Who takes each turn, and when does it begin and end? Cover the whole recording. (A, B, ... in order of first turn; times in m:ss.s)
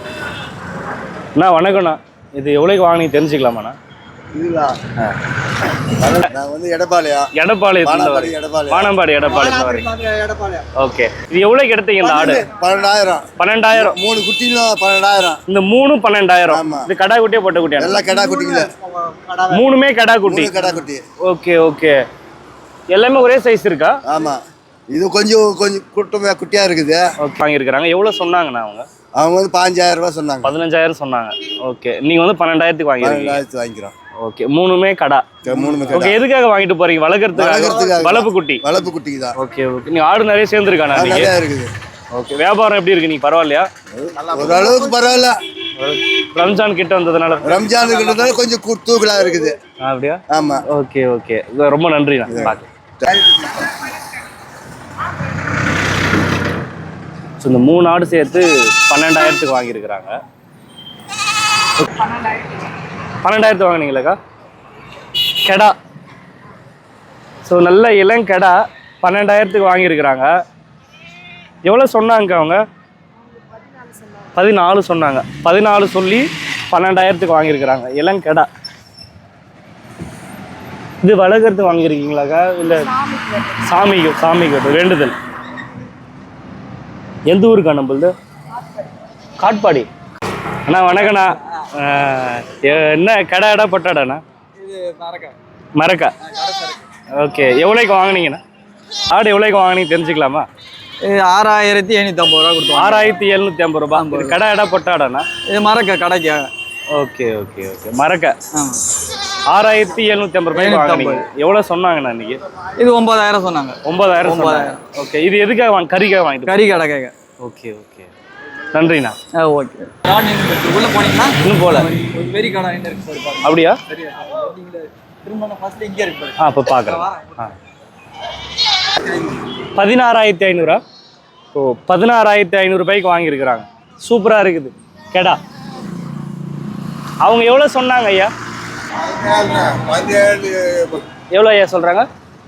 0:01.4-0:03.8 A
0:04.3-0:04.9 B
0:06.0-0:07.2 B
0:07.4-0:09.9 A
0:07.8-0:08.9 B
0:10.8-0:12.4 A
0:12.0-0:15.4 B
0:13.4-0:14.0 A
0:15.5-0:18.0 A
0:16.5-0:16.9 B
0:17.8-0:18.7 B
0:19.5-0:20.5 A
0:20.2-0:21.0 B
0:21.3-0:22.0 A
0:22.9-0:24.0 A
0:24.1-0:24.4 B
0:24.9-0:27.0 B
0:27.2-0:28.9 A
0:29.2-0:30.5 B
0:30.4-0:33.4 A
0:33.0-0:33.9 B
0:34.2-0:35.2 A
0:35.4-0:36.2 B
0:35.9-0:38.6 A
0:37.3-0:39.3 B
0:39.4-0:41.3 A
0:40.9-0:41.7 B
0:42.1-0:43.7 A
0:44.2-0:45.4 B
0:45.8-0:47.5 A
0:47.4-0:49.5 B
0:49.8-0:52.6 A
0:50.3-0:50.6 B
0:52.3-0:53.5 B
0:57.4-1:00.2 A
1:03.2-1:04.2 A
1:05.4-1:05.7 A
1:07.4-1:10.3 A
1:11.6-1:12.6 A
1:14.4-1:18.5 A
1:21.0-1:22.9 A
1:23.6-1:25.2 A
1:27.3-1:28.1 A
1:29.4-1:29.9 A
1:30.6-1:34.2 A
1:34.6-1:35.3 C
1:35.8-1:36.1 A
1:36.3-1:36.7 C
1:37.2-1:38.4 A
1:39.1-1:40.5 A
1:41.0-1:43.2 C
1:42.7-1:45.2 A
1:43.9-1:44.4 C
1:45.5-1:46.5 C
1:46.9-1:48.4 A
1:49.5-1:52.4 A
1:50.5-1:51.2 C
1:52.8-1:54.8 C
1:53.8-1:56.7 A
1:56.5-1:57.1 C
1:57.4-1:58.1 A
1:58.7-1:59.2 A
1:59.3-2:07.3 C
2:01.4-2:01.9 A
2:03.4-2:03.8 A
2:06.4-2:07.5 A
2:09.8-2:10.8 A
2:11.5-2:15.4 A
2:17.2-2:18.3 A
2:19.0-2:21.0 B
2:21.3-2:22.1 A